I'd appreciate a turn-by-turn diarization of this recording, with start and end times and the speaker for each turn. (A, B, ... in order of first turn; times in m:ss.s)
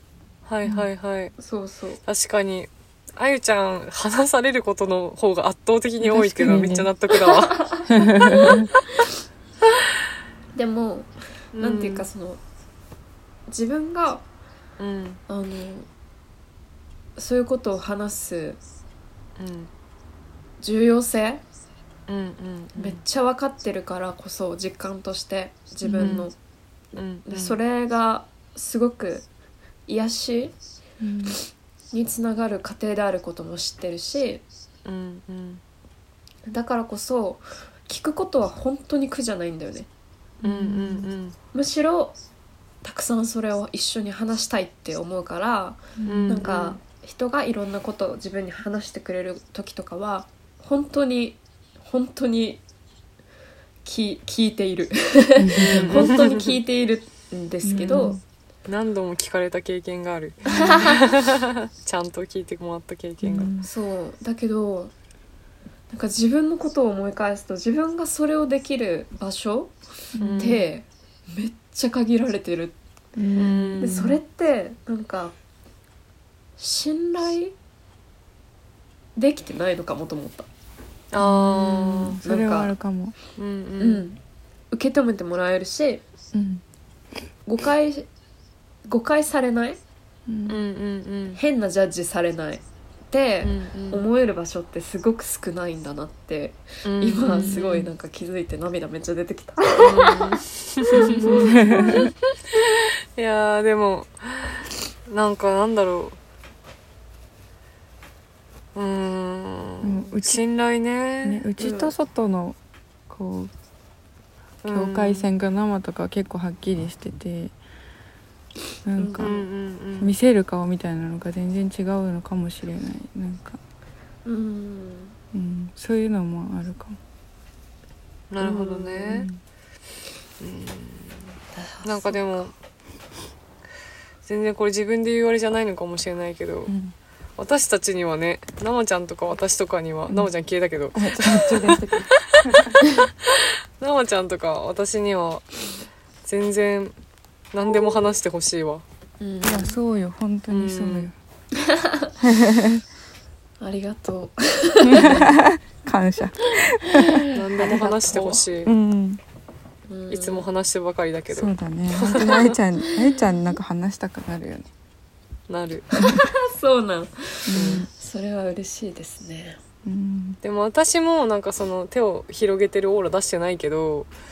0:00.4-0:01.4 A
0:01.4-0:02.0 B
0:02.0-0:07.9 A
0:06.0-0:06.9 C
0:07.3-0:08.6 B
0:07.9-0:08.7 C
0:10.6-0:12.4 B
0:11.5-0:12.1 A
0:13.5-0:14.2 B
0:14.8-0:15.2 A
0:15.3-0:15.9 B
0:17.2-0:18.6 B
0:19.4-0:19.7 A
0:20.6-0:21.4 B
0:22.1-0:23.0 A
0:22.8-0:26.4 B
0:25.8-0:26.3 C
0:26.0-0:26.3 A
0:26.9-0:27.6 A
0:27.3-0:29.3 B
0:29.9-0:30.6 B
0:31.0-0:31.4 C
0:31.9-0:34.4 B
0:34.8-0:35.6 A
0:36.5-0:39.9 B
0:40.4-0:41.1 C
0:40.4-0:41.4 A
0:41.5-0:42.2 B
0:42.8-0:52.6 B
0:46.0-0:46.4 C
0:46.1-0:46.8 A
0:53.8-0:58.2 B
0:55.4-0:56.1 C
0:55.6-0:56.6 A
0:57.6-0:58.2 C
0:58.7-1:03.5 A
1:00.5-1:00.9 B
1:03.2-1:03.7 C
1:03.6-1:04.9 B
1:05.9-1:09.8 B
1:10.2-1:10.6 C
1:10.2-1:10.6 A
1:10.4-1:12.8 B
1:13.2-1:14.2 C
1:13.4-1:14.0 A
1:13.8-1:15.4 B
1:16.6-1:17.5 B
1:19.2-1:20.5 B
1:21.1-1:22.2 A
1:21.2-1:23.2 C
1:22.2-1:22.7 B
1:23.4-1:24.0 A
1:23.8-1:24.2 B
1:24.7-1:26.0 B
1:26.3-1:26.6 C
1:27.5-1:28.1 B
1:28.9-1:29.8 B
1:30.3-1:30.6 C
1:30.5-1:31.4 A
1:31.4-1:42.1 B
1:33.4-1:34.0 A
1:36.8-1:37.9 A
1:37.5-1:37.8 C
1:39.8-1:46.2 A
1:41.0-1:42.1 C
1:48.8-1:51.9 A
1:49.8-1:50.4 C
1:51.2-1:52.6 C
1:53.1-1:53.5 C
1:54.6-1:55.3 A
1:54.7-1:57.6 C
1:58.8-1:59.4 C
1:59.0-1:59.4 B
1:59.2-2:00.2 A
2:00.0-2:03.6 C
2:04.2-2:05.2 B
2:05.3-2:07.0 C
2:08.3-2:09.3 A
2:08.4-2:09.2 B
2:09.1-2:09.4 C
2:10.4-2:12.5 A
2:11.6-2:12.5 B
2:14.2-2:16.7 A
2:16.7-2:17.0 C
2:17.4-2:22.7 A
2:20.9-2:22.8 C
2:23.2-2:25.5 A
2:26.2-2:26.9 A
2:27.5-2:28.8 A
2:29.2-2:29.8 B
2:29.4-2:31.1 C
2:30.5-2:31.1 A
2:31.6-2:32.1 B
2:32.2-2:32.8 C
2:33.6-2:35.4 B
2:34.8-2:37.2 C
2:36.6-2:38.4 B
2:37.3-2:38.7 A
2:38.6-2:39.2 C
2:39.9-2:40.4 B
2:40.1-2:42.6 A
2:41.3-2:44.7 C
2:42.9-2:43.2 B
2:45.5-2:46.0 A
2:46.0-2:49.6 B
2:47.5-2:47.9 C
2:47.5-2:47.9 A
2:49.8-2:50.4 C
2:50.4-2:54.1 A